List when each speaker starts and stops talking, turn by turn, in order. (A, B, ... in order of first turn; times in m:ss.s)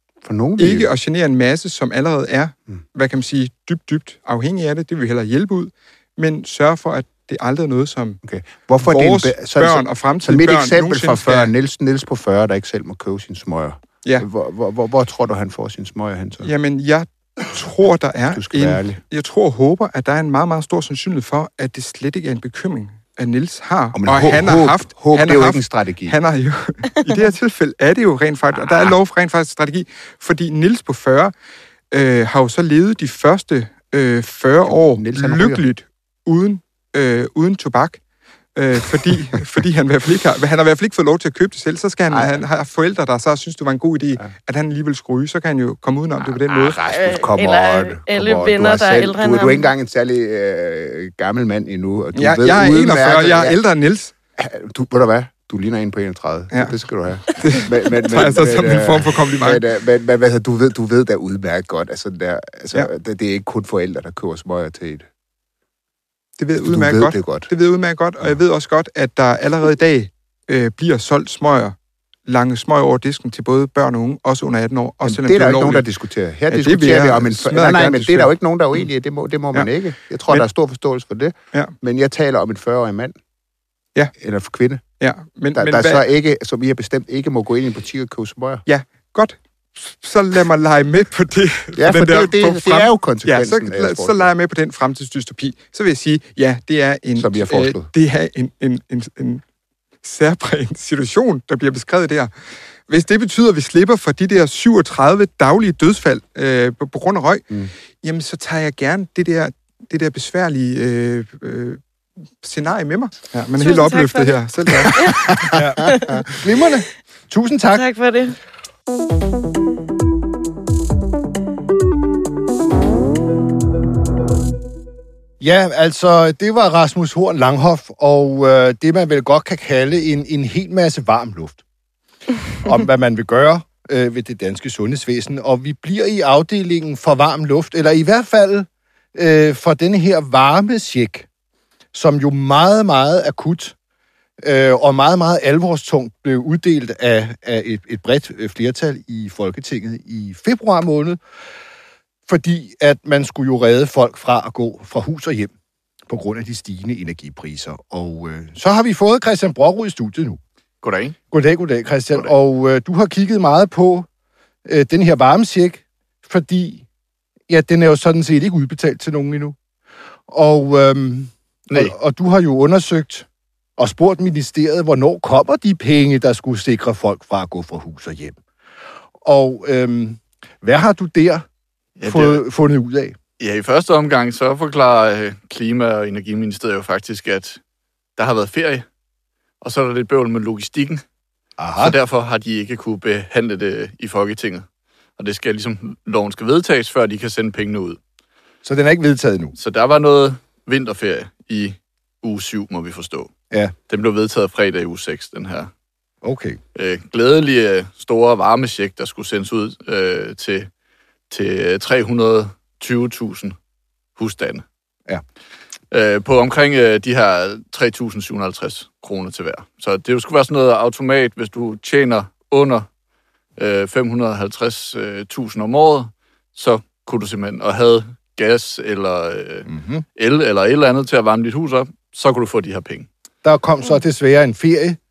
0:00.2-0:00.9 A
0:00.6-0:08.2 B
0:08.2-0:16.5 A
0:08.8-0:11.5 B
0:16.4-0:31.3 B
0:18.3-0:19.0 A
0:23.9-0:26.2 A
0:28.5-0:29.0 A
0:31.9-0:38.0 B
0:34.6-0:35.6 A
0:38.6-0:46.8 B
0:42.1-0:42.4 A
0:46.2-0:53.6 A
0:46.9-0:49.7 C
0:52.2-0:54.1 B
0:54.4-1:05.1 A
0:57.3-0:59.6 B
1:06.4-1:11.8 B
1:06.6-1:07.5 A
1:12.3-1:15.8 B
1:15.0-1:23.2 A
1:16.5-1:18.8 B
1:24.2-1:24.8 A
1:25.0-1:26.0 B
1:25.6-1:28.6 A
1:28.7-1:39.4 B
1:31.8-1:34.3 A
1:37.2-1:37.9 A
1:40.0-1:42.3 B
1:42.9-1:47.5 B
1:48.0-1:51.8 B
1:52.4-1:55.5 B
1:53.6-1:56.2 C
1:55.5-1:57.8 D
1:55.8-1:56.2 A
1:57.7-1:58.4 C
2:05.4-2:11.6 D
2:12.6-2:21.3 D
2:21.9-2:23.7 D
2:24.4-2:31.2 D
2:32.3-2:35.5 D
2:36.1-2:40.4 D
2:40.8-2:41.2 E
2:41.3-2:44.1 D
2:44.7-2:46.8 D
2:47.5-2:49.6 D
2:50.3-2:53.3 D
2:53.8-2:58.4 D
2:59.2-3:01.5 D
3:02.0-3:02.4 E
3:02.1-3:03.2 D
3:03.4-3:07.6 E
3:08.2-3:08.9 E
3:09.6-3:11.0 E
3:11.6-3:12.0 D
3:11.8-3:14.7 E
3:15.2-3:18.0 E
3:18.6-3:19.6 D
3:19.6-3:23.3 E
3:23.9-3:25.7 E
3:26.2-3:26.6 D
3:26.8-3:30.7 E
3:31.3-3:33.6 E
3:34.2-3:34.6 E
3:35.9-3:42.9 E
3:43.6-3:53.1 E
3:49.7-3:50.0 D
3:53.4-3:55.0 D